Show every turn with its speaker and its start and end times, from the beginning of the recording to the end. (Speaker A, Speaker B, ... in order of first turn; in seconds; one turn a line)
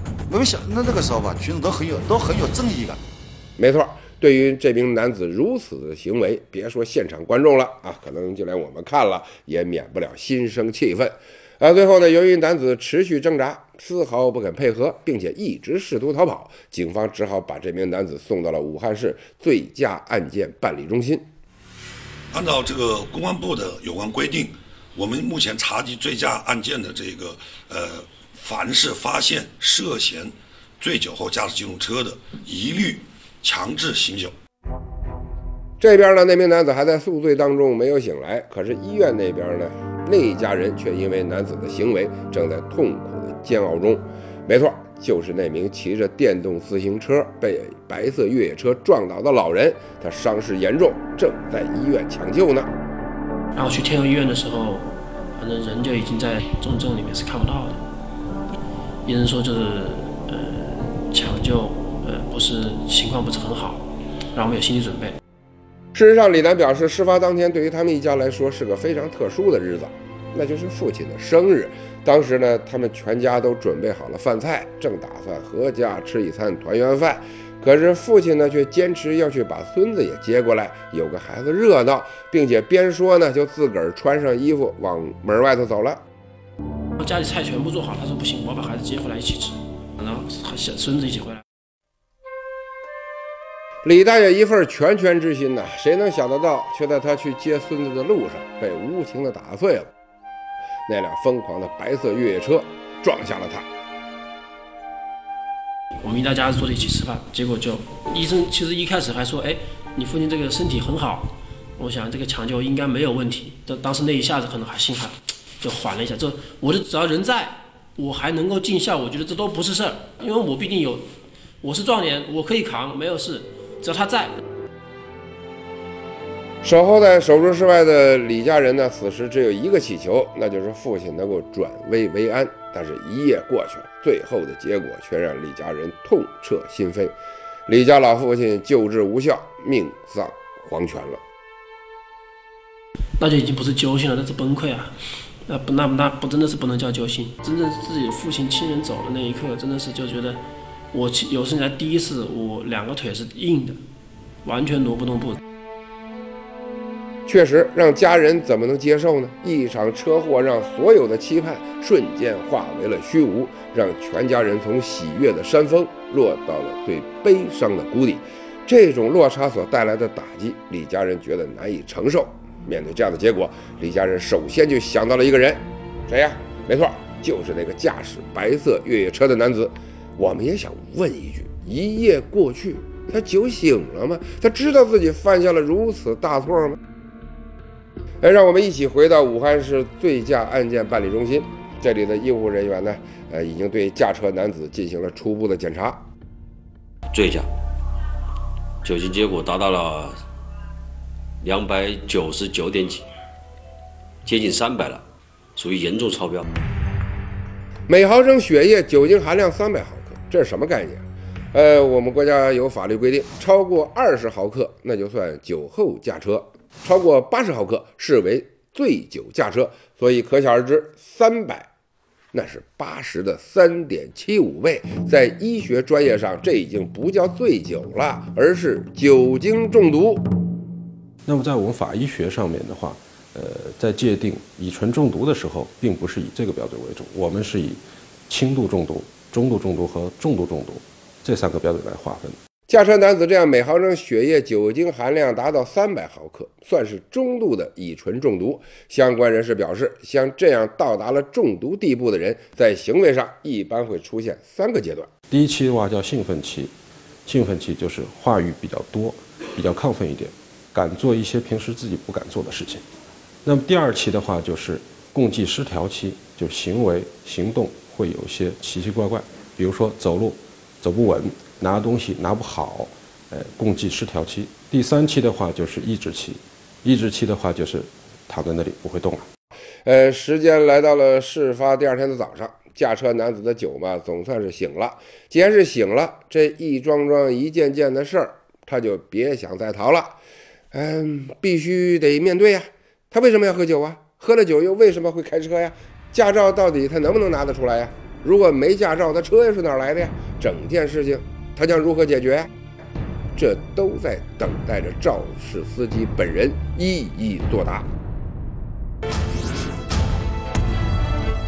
Speaker A: 0.3-3.0
Speaker B: 3.6-21.2
Speaker C: 22.3-34.4
Speaker B: 35.8-52.7
Speaker D: 53.5-57.8
Speaker D: 59.0-65.2
Speaker B: 66.0-86.0
Speaker D: 87.0-91.4
Speaker B: 93.8-99.9
Speaker B: 100.9-103.7
Speaker D: 106.0-121.1
Speaker D: 121.6-124.3
Speaker B: 126.6-137.2
Speaker B: 137.7-141.2
Speaker D: 143.2-144.9
Speaker D: 145.5-150.4
Speaker D: 150.9-153.8
Speaker D: 154.4-155.4
Speaker B: 157.3-186.8
Speaker B: 188.2-196.0
Speaker E: 197.1-197.5
Speaker E: 198.8-200.2
Speaker E: 201.4-203.1
Speaker E: 204.2-205.0
Speaker E: 205.6-206.5
Speaker B: 207.9-221.7
Speaker B: 222.3-230.2
Speaker F: 231.3-242.4
Speaker B: 242.7-255.1
Speaker F: 255.3-256.7
Speaker F: 257.3-262.8
Speaker F: 263.4-279.3
Speaker B: 279.9-290.2
Speaker B: 290.7-302.5
Speaker B: 303.4-307.9